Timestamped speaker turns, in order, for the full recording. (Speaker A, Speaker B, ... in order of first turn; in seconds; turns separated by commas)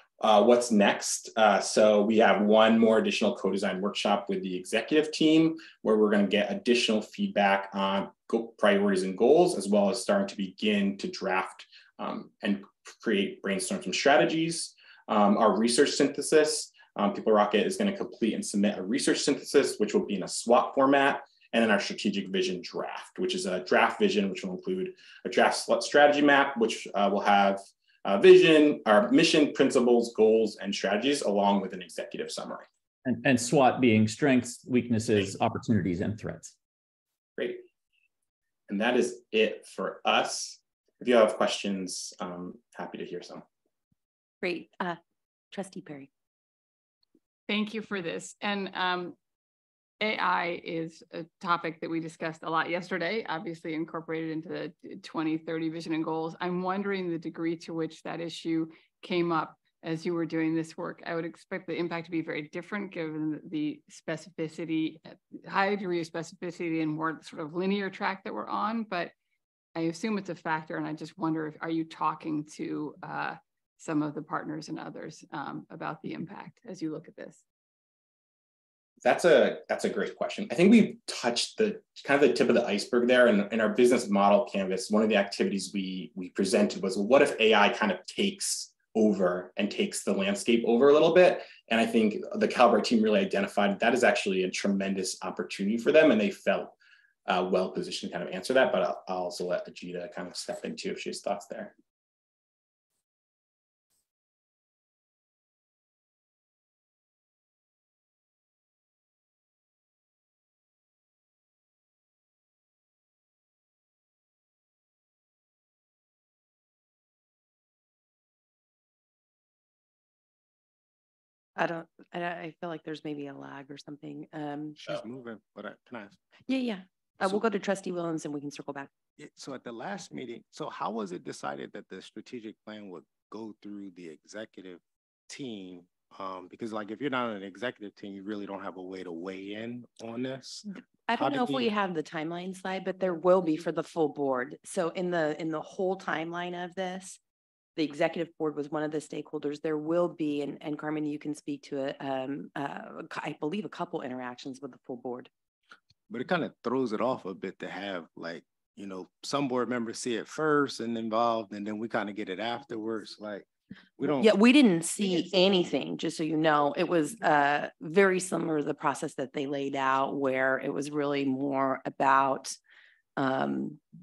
Speaker A: 0.2-32.6, Speaker B: 33.0-36.5, Speaker A: 37.4-37.6, Speaker A: 38.7-43.4, Speaker C: 44.4-45.0, Speaker C: 45.5-46.1, Speaker D: 47.5-49.2, Speaker D: 50.0-69.1, Speaker D: 69.8-77.4, Speaker A: 79.0-96.8, Speaker A: 97.3-101.7, Speaker C: 121.6-124.8, Speaker E: 124.8-126.2, Speaker C: 126.5-128.9, Speaker E: 129.2-140.6, Speaker C: 141.1-147.2, Speaker E: 141.2-141.7, Speaker C: 147.8-155.3, Speaker E: 156.1-163.5, Speaker E: 164.0-164.3, Speaker C: 164.2-172.6, Speaker C: 173.2-173.8